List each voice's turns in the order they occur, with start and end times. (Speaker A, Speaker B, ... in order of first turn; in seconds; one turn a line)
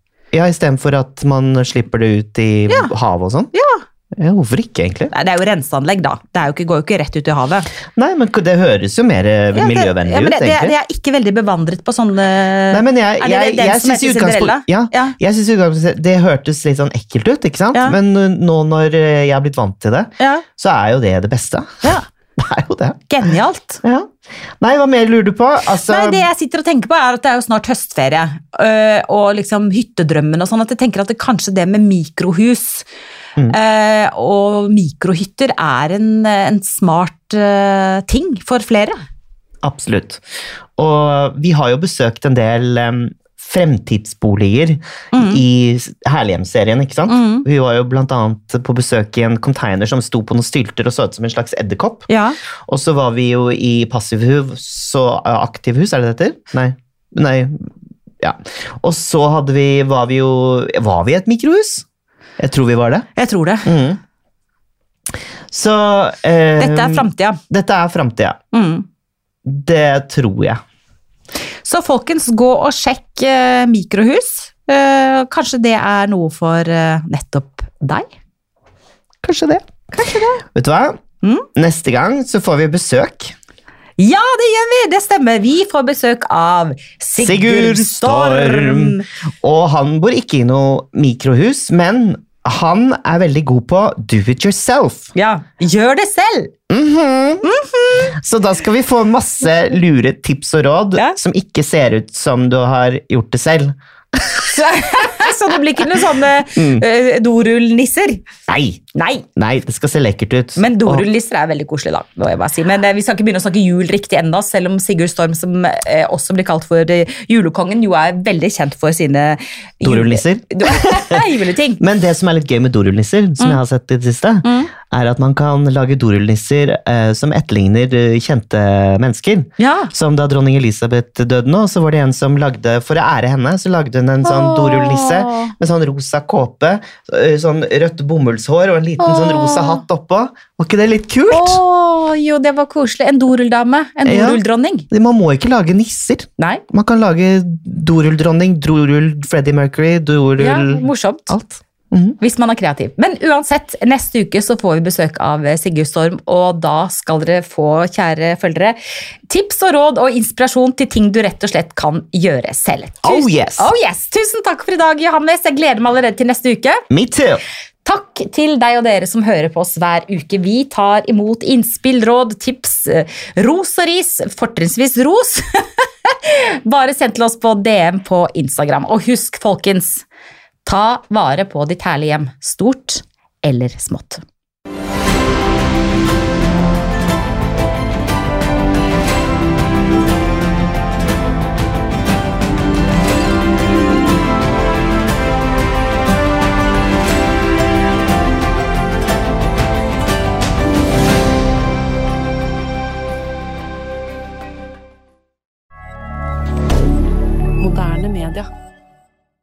Speaker A: 0.3-3.5
Speaker B: 3.5-3.8
Speaker A: 4.2-5.1
Speaker B: 5.1-7.7
Speaker A: 7.9-10.8
Speaker B: 9.5-15.1
Speaker A: 12.7-23.1
Speaker B: 20.2-20.4
Speaker B: 23.1-23.8
Speaker A: 24.6-26.3
Speaker B: 25.8-32.9
Speaker B: 33.5-38.9
Speaker A: 39.6-40.2
Speaker A: 40.8-52.1
Speaker B: 45.1-45.4
Speaker B: 47.1-47.5
Speaker B: 52.1-52.4
Speaker A: 52.6-57.7
Speaker A: 58.2-61.8
Speaker A: 62.4-63.1
Speaker B: 63.1-63.7
Speaker A: 63.6-64.0
Speaker A: 65.5-68.4
Speaker B: 66.6-67.4
Speaker B: 68.5-68.8
Speaker A: 69.5-70.6
Speaker B: 71.6-78.0
Speaker A: 79.2-79.6
Speaker B: 79.9-80.4
Speaker A: 80.5-81.0
Speaker B: 81.2-81.5
Speaker A: 81.5-83.3
Speaker B: 84.0-89.0
Speaker A: 87.2-95.1
Speaker B: 95.1-96.5
Speaker A: 96.7-97.5
Speaker B: 97.4-98.1
Speaker A: 98.1-104.6
Speaker B: 104.5-108.2
Speaker A: 106.5-106.8
Speaker A: 108.5-108.8
Speaker B: 108.9-109.2
Speaker A: 109.3-111.0
Speaker B: 110.5-121.8
Speaker A: 119.8-121.3
Speaker A: 121.8-141.6
Speaker B: 124.4-124.7
Speaker B: 129.6-129.9
Speaker B: 134.2-135.5
Speaker B: 139.0-139.8
Speaker B: 141.3-144.9
Speaker A: 144.1-152.2
Speaker B: 150.4-151.3
Speaker B: 152.2-158.8
Speaker B: 159.3-166.8
Speaker A: 163.0-163.7
Speaker A: 166.9-167.4
Speaker B: 167.8-175.4
Speaker B: 176.1-180.1
Speaker B: 180.6-184.2
Speaker B: 207.6-208.5